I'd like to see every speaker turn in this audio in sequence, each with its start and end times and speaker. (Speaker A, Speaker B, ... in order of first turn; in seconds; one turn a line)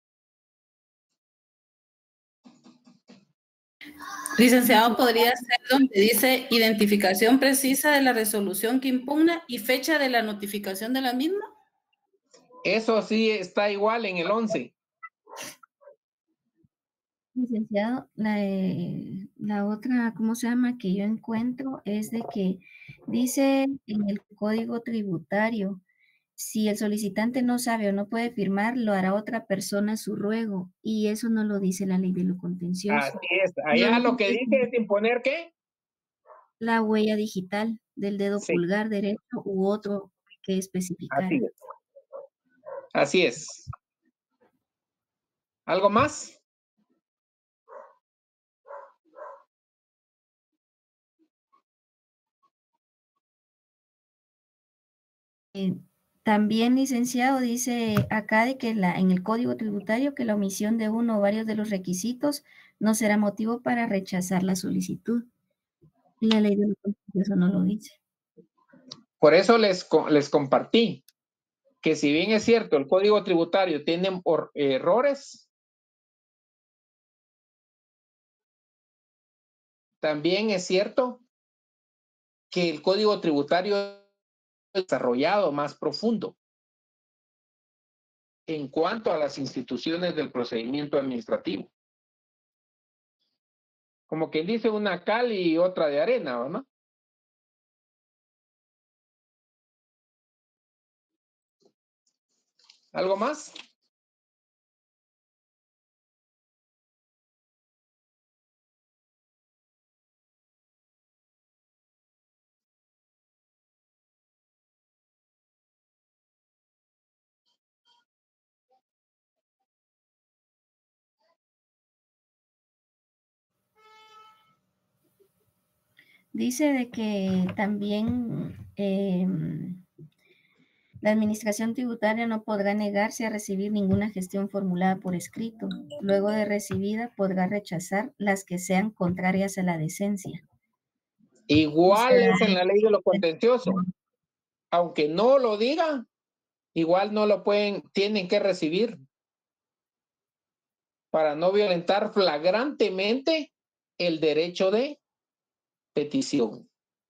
Speaker A: 4.4-11.5
Speaker B: 12.7-14.7
Speaker C: 17.4-25.8
Speaker C: 26.4-33.2
Speaker B: 32.9-35.5
Speaker C: 33.7-34.7
Speaker C: 36.6-41.4
Speaker B: 41.1-41.5
Speaker B: 42.9-43.7
Speaker B: 45.7-46.4
Speaker C: 55.5-65.3
Speaker C: 66.2-68.0
Speaker B: 69.2-71.0
Speaker B: 71.8-75.5
Speaker B: 80.0-81.2
Speaker B: 82.5-84.0
Speaker B: 84.8-86.4
Speaker B: 88.5-91.7
Speaker B: 94.1-96.7
Speaker B: 102.9-103.5
Speaker C: 126.3-129.8
Speaker C: 131.0-140.4
Speaker B: 141.5-143.8
Speaker B: 144.7-146.1
Speaker B: 146.8-149.0
Speaker B: 151.1-155.0
Speaker B: 155.9-156.7